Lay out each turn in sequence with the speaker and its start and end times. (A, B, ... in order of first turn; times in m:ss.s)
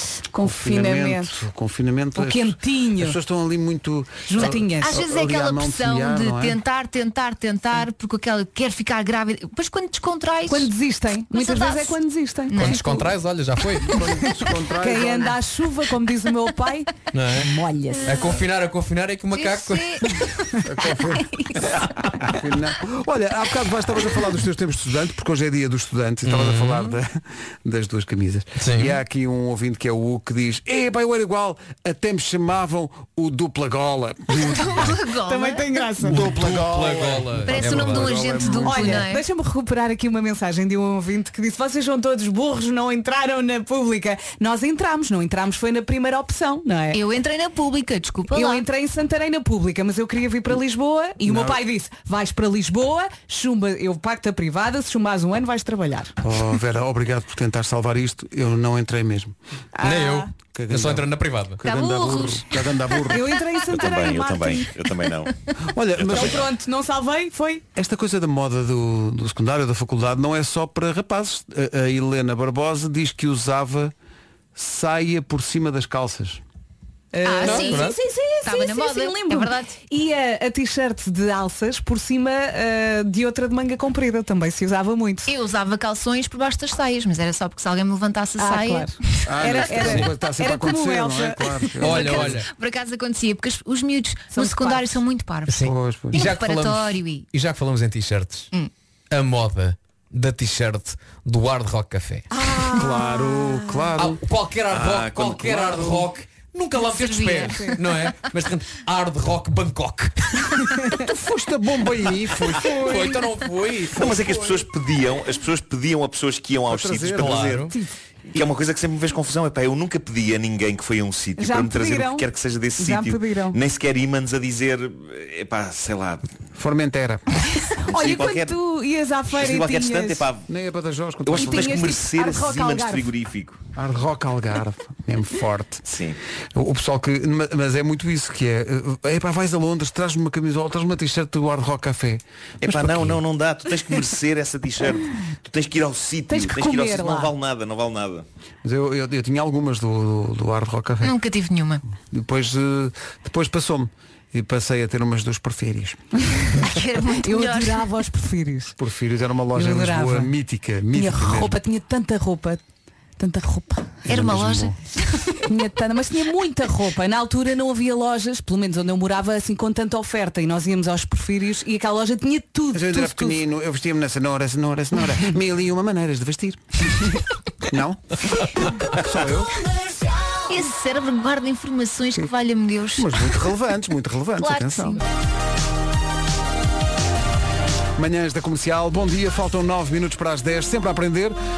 0:00.3-0:01.3 A
0:00.4-0:06.6 B
0:02.2-0:03.2 A
0:04.3-0:05.0 A
0:04.8-0:10.7 C
0:10.5-0:13.1 A
0:11.3-0:12.8 C
0:12.5-0:13.9 D
0:13.8-0:15.4 B
0:14.8-0:18.2 A
0:17.1-0:20.1 D
0:19.3-0:20.6 C
0:20.6-0:21.3 B
0:21.2-0:21.8 C
0:22.2-0:35.0 B
0:26.2-0:27.0 D
0:28.6-0:29.0 D
0:34.4-0:35.8 C
0:35.2-0:36.3 A
0:36.0-0:39.0 B
0:36.1-0:38.4 D
0:37.4-0:39.2 C
0:38.6-0:47.0 A
0:46.9-0:48.6 C
0:48.3-0:56.1 A
0:51.2-0:51.6 B
0:56.2-0:59.4 B
0:59.8-1:00.3 A
0:59.8-1:01.6 D
1:00.5-1:03.3 B
1:01.6-1:02.5 C
1:03.1-1:04.7 A
1:03.7-1:05.3 E
1:05.7-1:06.5 B
1:05.9-1:06.4 E
1:06.1-1:07.6 A
1:07.8-1:13.9 B
1:14.6-1:16.4 B
1:17.1-1:25.3 A
1:17.2-1:19.8 C
1:17.5-1:17.9 B
1:25.3-1:28.9 C
1:28.4-1:32.0 A
1:29.3-1:32.4 B
1:29.8-1:30.1 D
1:31.8-1:32.5 D
1:31.9-1:35.6 C
1:34.3-1:35.0 A
1:35.5-1:38.5 D
1:35.6-1:36.3 B
1:36.1-1:37.2 C
1:39.1-1:42.3 D
1:42.3-1:43.9 A
1:42.7-1:44.2 B
1:44.0-1:50.7 D
1:44.7-1:46.1 E
1:46.8-1:47.7 C
1:47.5-1:47.8 A
1:51.0-1:53.3 B
1:52.7-1:54.0 D
1:53.9-1:57.8 E
1:54.0-1:54.5 B
1:56.7-1:57.6 B
1:57.0-1:57.7 D
1:58.3-2:06.3 E
2:01.4-2:03.6 A
2:06.6-2:07.2 B
2:07.7-2:10.2 A
2:07.9-2:08.6 E
2:09.3-2:10.5 E
2:10.5-2:12.0 B
2:11.3-2:13.6 E
2:11.3-2:13.1 A
2:13.8-2:15.8 B
2:15.8-2:16.2 E
2:16.5-2:23.2 B
2:22.6-2:28.2 E
2:26.3-2:27.3 A
2:28.6-2:31.1 B
2:31.0-2:31.8 C
2:32.1-2:36.0 B
2:36.6-2:37.9 C
2:37.2-2:38.8 A
2:38.8-2:41.6 B
2:39.5-2:40.3 A
2:40.9-2:42.6 A
2:43.2-2:44.0 A
2:44.1-2:45.3 C
2:44.1-2:44.8 B
2:45.4-2:53.4 A
2:52.7-2:58.2 B
2:58.9-2:59.5 B
3:00.5-3:03.2 C
3:03.0-3:05.0 B
3:04.4-3:05.0 C
3:08.0-3:11.4 B